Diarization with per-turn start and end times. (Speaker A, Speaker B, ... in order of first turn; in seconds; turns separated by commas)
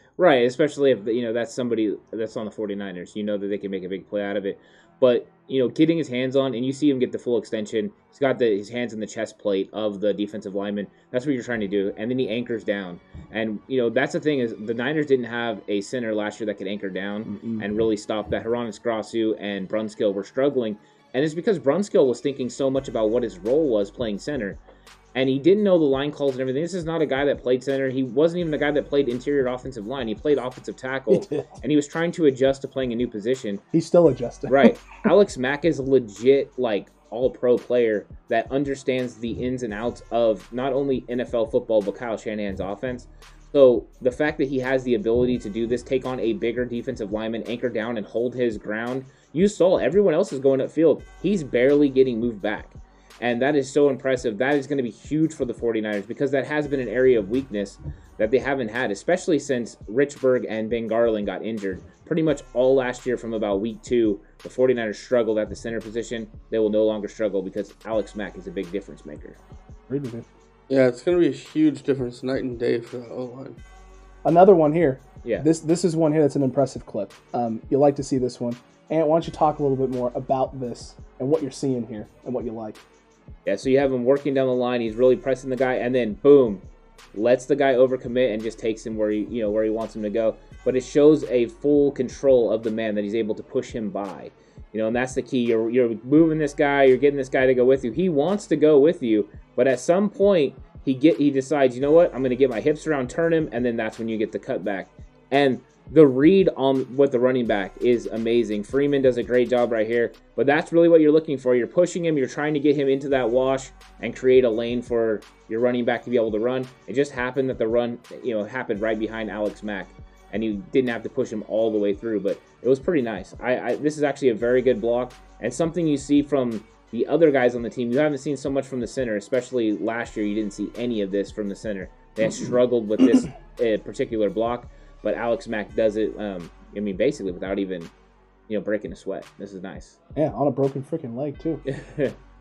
Speaker A: 0.2-24.6, Speaker B: 17.3-17.6, Speaker A: 25.1-33.6, Speaker B: 31.1-31.5, Speaker B: 33.7-34.8, Speaker A: 34.5-69.4, Speaker B: 69.9-70.2, Speaker C: 70.7-73.6, Speaker B: 74.2-82.8, Speaker A: 83.5-86.6, Speaker A: 87.1-137.9, Speaker A: 138.5-140.0, Speaker B: 140.2-141.6, Speaker A: 141.7-142.2